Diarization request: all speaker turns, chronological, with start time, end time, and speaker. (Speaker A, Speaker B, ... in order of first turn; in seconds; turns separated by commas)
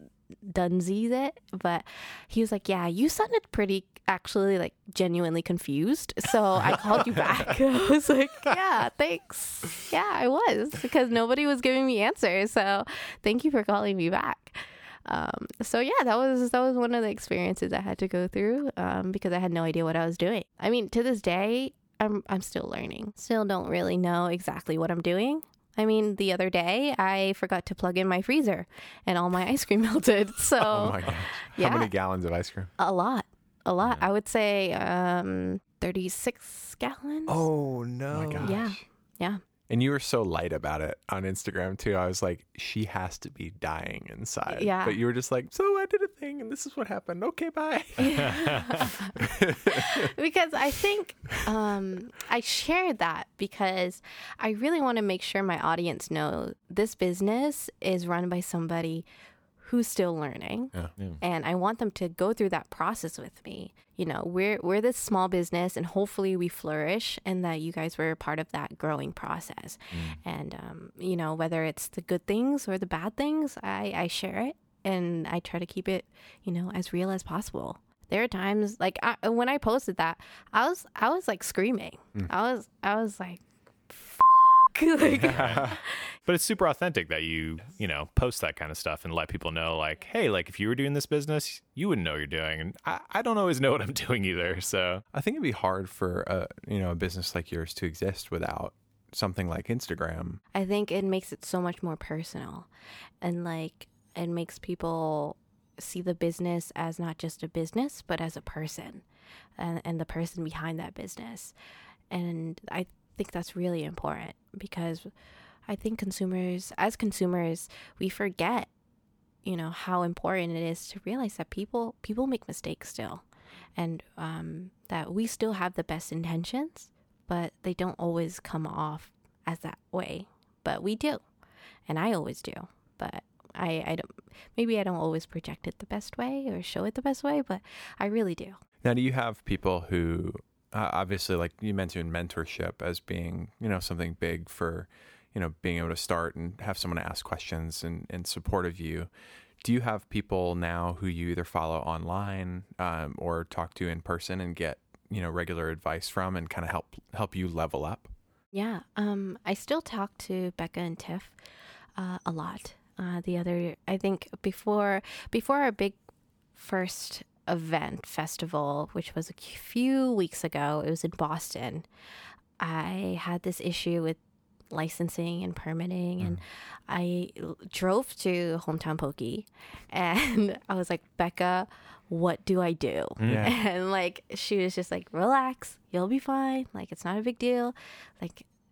Speaker A: 0.4-31.9, Speaker B: 30.6-32.7, Speaker A: 32.8-37.5, Speaker C: 38.1-38.5, Speaker B: 38.1-38.8, Speaker A: 38.4-39.4, Speaker B: 39.7-50.1, Speaker A: 44.5-45.0, Speaker A: 48.0-59.0, Speaker C: 48.2-48.6, Speaker A: 59.6-86.2, Speaker C: 69.9-70.2, Speaker B: 85.2-85.8, Speaker C: 85.3-85.7, Speaker C: 86.2-95.0, Speaker B: 95.1-100.4, Speaker A: 100.5-102.7, Speaker A: 103.2-109.0, Speaker A: 109.6-111.5, Speaker A: 112.1-115.1, Speaker A: 115.7-118.7, Speaker A: 119.4-131.2, Speaker A: 131.9-138.6, Speaker B: 138.8-149.1, Speaker B: 149.6-158.1, Speaker A: 158.5-161.4, Speaker A: 161.9-166.0, Speaker A: 166.5-171.8, Speaker A: 172.6-174.2, Speaker A: 174.7-188.5, Speaker C: 183.2-183.5, Speaker B: 183.2-183.5